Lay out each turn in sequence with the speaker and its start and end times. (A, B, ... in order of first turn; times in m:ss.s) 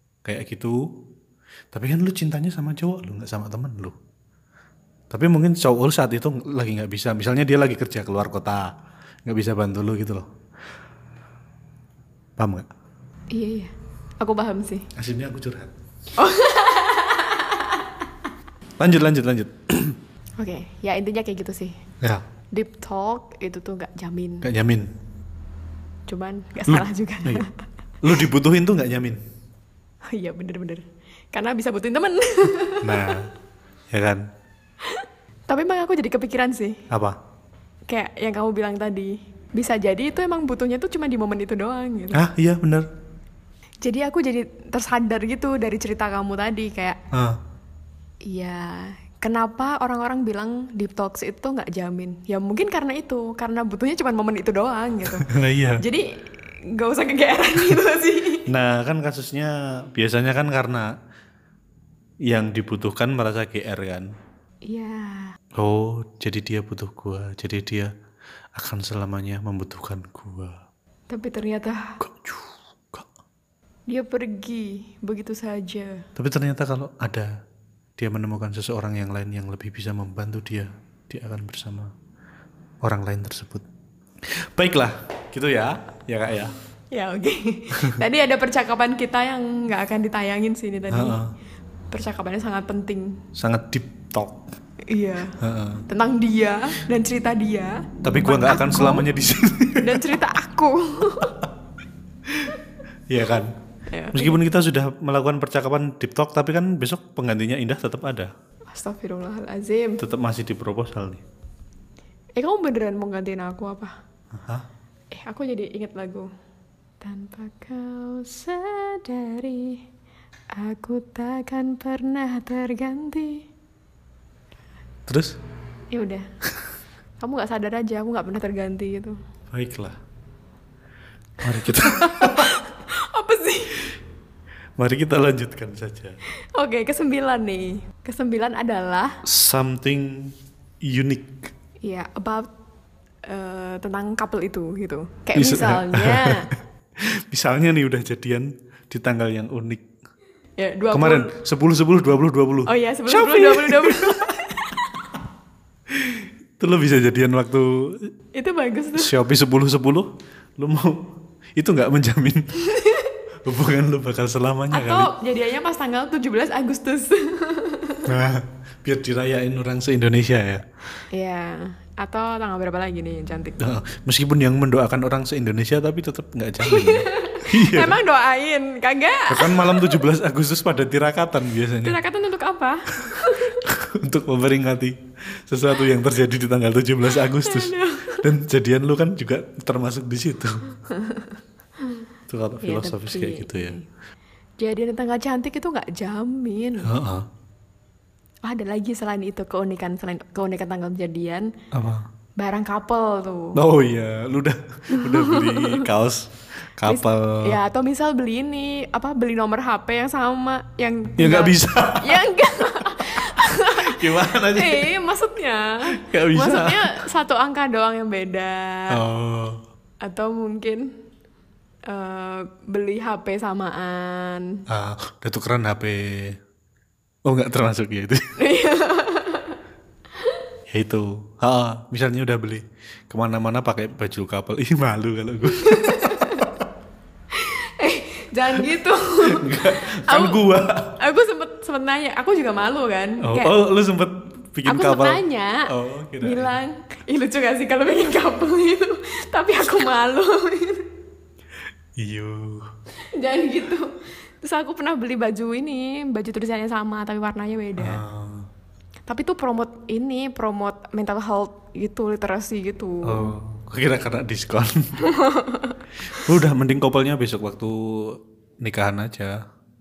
0:00.2-0:00.8 A
0:01.7-0:04.0 A
0:05.1-0:08.7 A
0:09.2-0:10.3 A
0:12.4-0:12.7 A
0:13.3-0:14.9 B
0:14.9-0:15.7 A
0:16.2-0:17.9 B
0:18.8-0:20.0 A
0:20.4-0:21.8 B
0:22.5-0:24.4 B
0:24.4-0:24.9 A
0:26.1-0:27.6 B
0:26.7-0:27.4 A
0:28.0-0:29.2 A
0:30.1-0:33.2 B
0:32.8-0:33.3 A
0:33.9-0:34.2 A
0:34.8-0:36.8 B
0:36.9-0:37.2 A
0:37.9-0:42.2 B
0:42.1-0:42.9 A
0:43.8-0:47.0 B
0:47.1-0:47.4 A
0:48.2-0:55.3 B
0:55.2-0:55.8 A
0:55.8-0:56.2 B
0:56.7-0:58.5 B
0:58.5-1:00.9 A
1:02.2-1:04.1 A
1:04.6-1:05.3 B
1:05.6-1:07.9 A
1:08.6-1:10.6 A
1:11.1-1:11.9 B
1:12.0-1:13.1 A
1:13.9-1:16.0 B
1:16.2-1:17.3 A
1:18.0-1:21.9 A
1:22.8-1:23.6 A
1:24.2-1:26.5 A
1:26.9-1:31.2 B
1:30.9-1:31.3 A
1:31.9-1:33.2 B
1:33.4-1:34.4 A
1:34.9-1:35.4 B
1:35.4-1:35.8 A
1:35.9-1:39.0 B
1:38.0-1:40.0 A
1:39.8-1:41.4 B
1:42.3-1:42.6 A
1:43.1-1:43.5 A
1:43.9-1:44.4 B
1:44.1-1:48.3 A
1:48.7-1:50.0 B
1:50.0-1:51.2 A
1:52.4-1:53.9 B
1:54.3-1:54.6 A
1:55.1-1:56.3 B
1:57.0-1:59.8 B
2:00.5-2:03.4 B
2:05.1-2:05.4 A
2:05.9-2:06.2 B
2:07.2-2:09.2 B
2:09.5-2:10.0 A
2:11.4-2:12.6 A
2:11.7-2:13.9 B
2:14.8-2:16.2 A
2:16.5-2:19.2 B
2:19.2-2:21.5 A
2:21.8-2:22.5 B
2:23.3-2:26.5 B
2:25.3-2:26.4 A
2:27.0-2:29.8 A
2:30.6-2:31.3 B
2:30.9-2:34.3 A
2:32.6-2:35.1 B
2:35.9-2:38.1 A
2:38.3-2:39.1 B
2:39.0-2:41.0 A
2:41.6-2:42.5 A
2:42.6-2:43.1 B
2:43.4-2:45.1 A
2:44.7-2:48.1 B
2:48.1-2:50.6 A
2:51.1-2:53.6 B
2:53.6-2:58.0 A
2:56.6-3:00.0 B
2:59.3-3:02.0 A
3:01.8-3:03.6 B
3:03.1-3:10.6 A
3:07.1-3:08.2 B
3:10.9-3:12.0 B
3:12.3-3:13.8 A
3:12.6-3:13.8 B
3:14.6-3:16.9 B
3:16.8-3:17.3 A
3:18.4-3:21.5 B
3:21.7-3:22.0 A
3:22.4-3:23.6 B
3:23.5-3:27.6 A
3:24.9-3:25.8 B
3:26.8-3:39.0 B
3:31.2-3:32.2 A
3:32.8-3:33.1 A
3:33.8-3:34.9 A
3:36.0-3:36.9 A
3:38.9-3:39.6 A
3:40.0-3:40.9 B
3:41.9-3:44.6 B
3:44.7-3:46.4 A
3:47.2-3:48.3 A
3:48.4-3:49.6 B
3:50.7-3:56.5 A
3:55.4-3:56.5 B
3:57.3-4:00.4 B
3:59.2-4:00.9 A
4:01.0-4:03.5 B
4:03.2-4:06.6 A
4:04.6-4:05.7 B
4:06.2-4:10.8 B
4:12.0-4:12.7 A
4:13.1-4:18.0 B
4:17.8-4:18.5 A
4:19.1-4:23.3 B
4:23.0-4:25.1 A
4:25.0-4:25.8 B
4:26.1-4:29.4 A